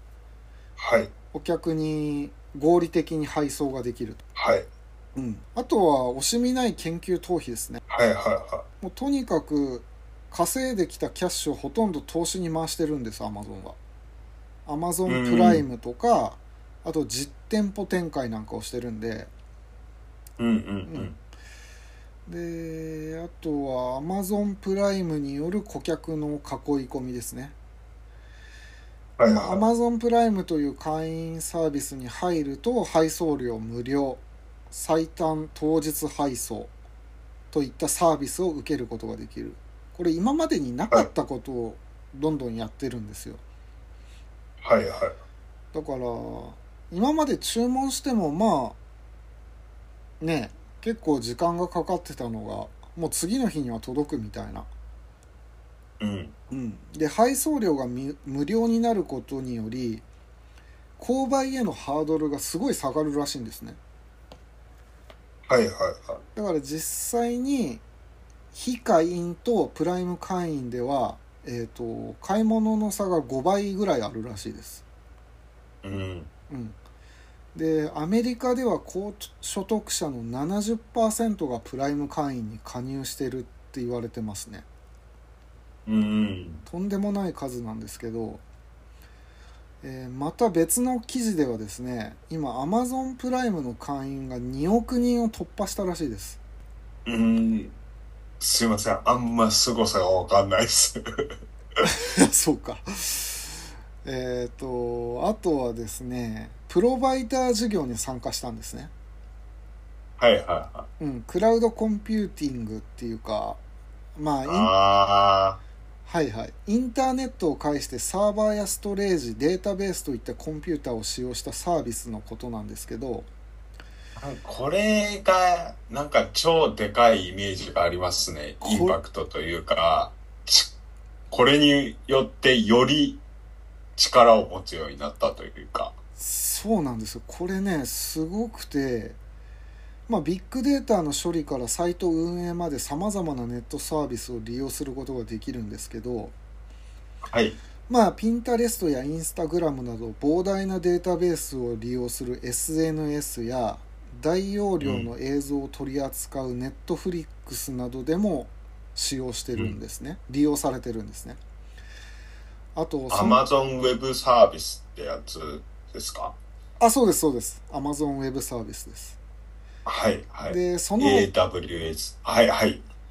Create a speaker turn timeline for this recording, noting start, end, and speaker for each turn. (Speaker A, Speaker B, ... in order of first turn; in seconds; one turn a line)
Speaker A: 0.8-1.1
Speaker B: 1.3-4.2
Speaker A: 4.4-4.7
Speaker B: 5.2-7.8
Speaker A: 7.9-8.7
Speaker B: 8.8-13.8
Speaker B: 14.7-19.3
Speaker A: 15.1-15.6
Speaker A: 20.4-21.2
Speaker B: 20.9-21.1
Speaker B: 22.3-27.6
Speaker A: 29.2-29.6
Speaker B: 29.3-36.7
Speaker B: 37.5-43.4
Speaker A: 44.6-45.2
Speaker B: 45.7-48.8
Speaker B: 50.2-54.7
Speaker A: 56.0-56.4
Speaker B: 56.5-60.0
Speaker B: 61.0-63.8
Speaker A: 65.5-66.2
Speaker B: 66.4-67.8
Speaker B: 68.5-74.8
Speaker A: 75.8-76.3
Speaker B: 76.5-76.8
Speaker B: 77.5-84.7
Speaker A: 85.9-86.6
Speaker B: 86.7-88.4
Speaker B: 89.8-96.4
Speaker A: 97.1-97.7
Speaker A: 98.4-101.3
Speaker B: 101.8-108.9
Speaker A: 110.2-110.9
Speaker B: 111.0-113.6
Speaker B: 114.2-114.7
Speaker A: 114.5-115.6
Speaker B: 116.1-123.3
Speaker A: 124.2-130.7
Speaker B: 128.6-129.0
Speaker A: 131.3-133.2
Speaker A: 134.0-135.9
Speaker B: 136.2-139.2
Speaker B: 140.1-146.3
Speaker A: 147.3-147.6
Speaker B: 147.9-161.4
Speaker A: 154.8-155.1
Speaker B: 162.8-163.4
Speaker A: 163.1-166.4
Speaker B: 166.8-169.2
Speaker A: 169.8-172.8
Speaker B: 170.5-171.3